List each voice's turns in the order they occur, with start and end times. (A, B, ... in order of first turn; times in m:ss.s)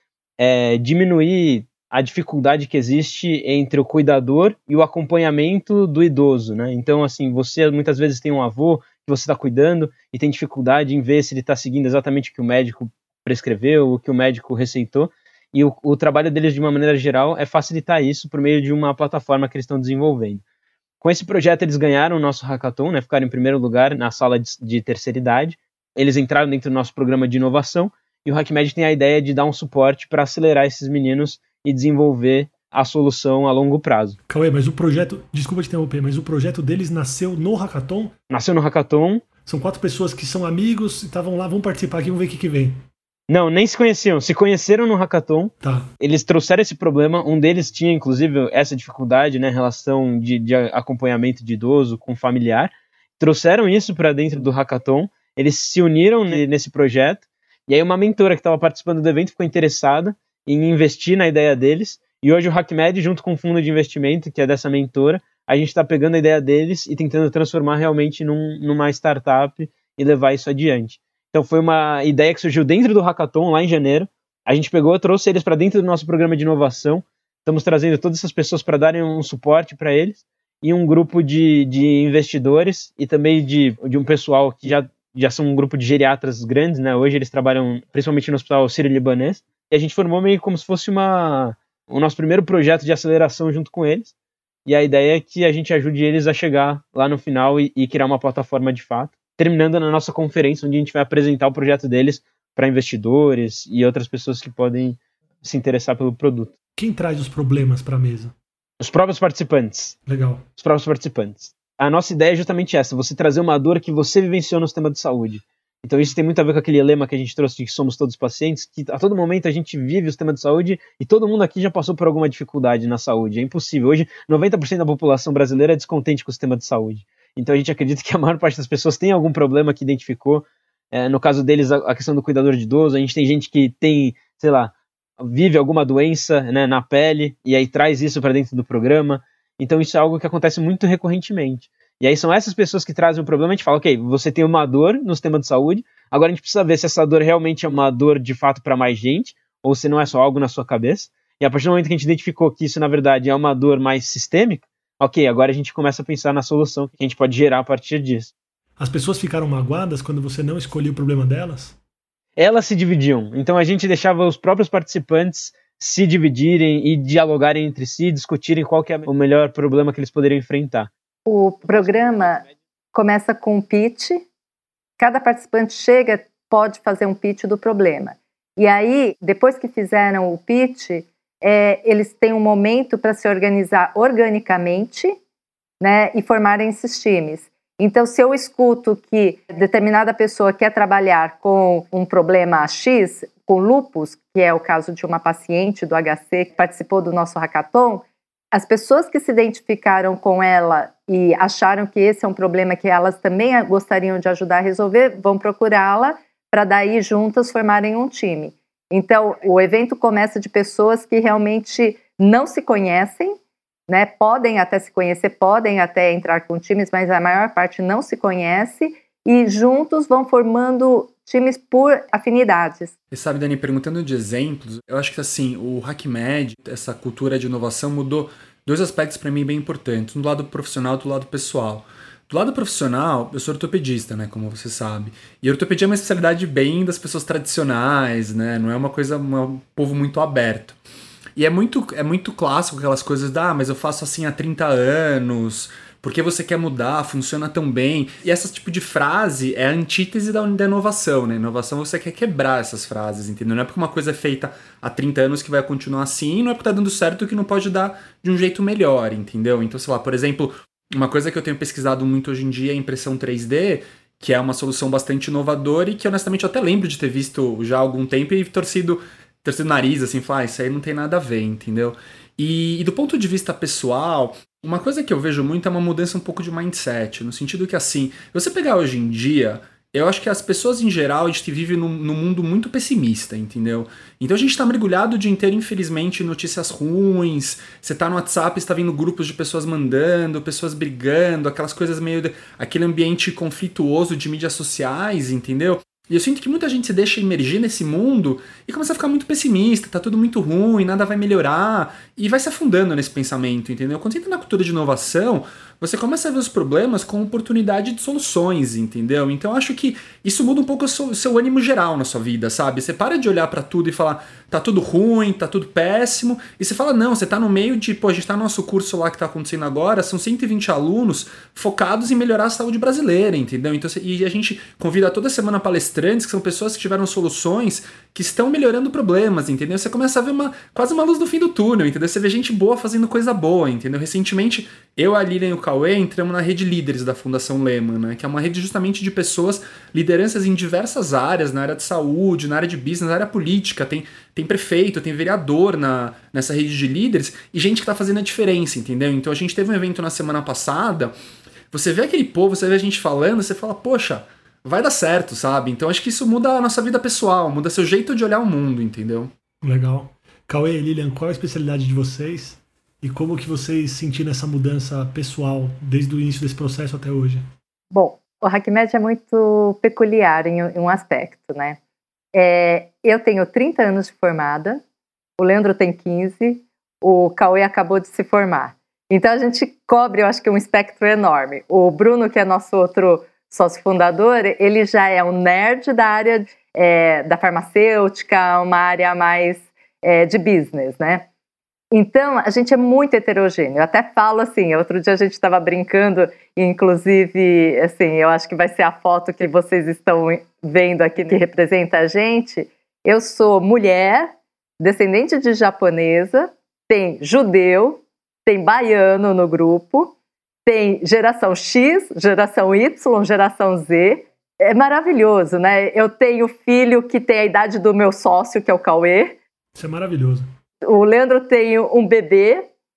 0:00.4-0:20.4 A
0:21.0-0:34.2 A
0:34.3-0:38.1 B
0:38.3-0:39.2 A
0:39.4-0:42.8 B
0:43.3-1:34.1 A
0:45.6-0:45.9 B
1:34.6-1:46.5 A
1:46.8-1:48.3 B
1:48.8-1:50.0 A
1:50.1-1:50.4 B
1:50.6-2:38.3 A
2:38.8-2:41.8 B
2:42.4-2:50.9 A
2:51.2-2:54.2 C
2:55.0-3:05.2 C
3:05.8-3:33.4 C
3:33.9-3:42.9 C
3:43.1-4:00.8 D
4:01.4-5:51.1 D
5:51.7-5:59.3 D
5:59.6-6:07.4 B
6:07.9-6:11.8 C
6:12.3-6:14.8 C
6:15.4-6:31.2 C
6:31.9-6:50.1 C
6:50.6-6:59.4 C
6:59.7-7:00.5 B
7:00.8-7:02.7 C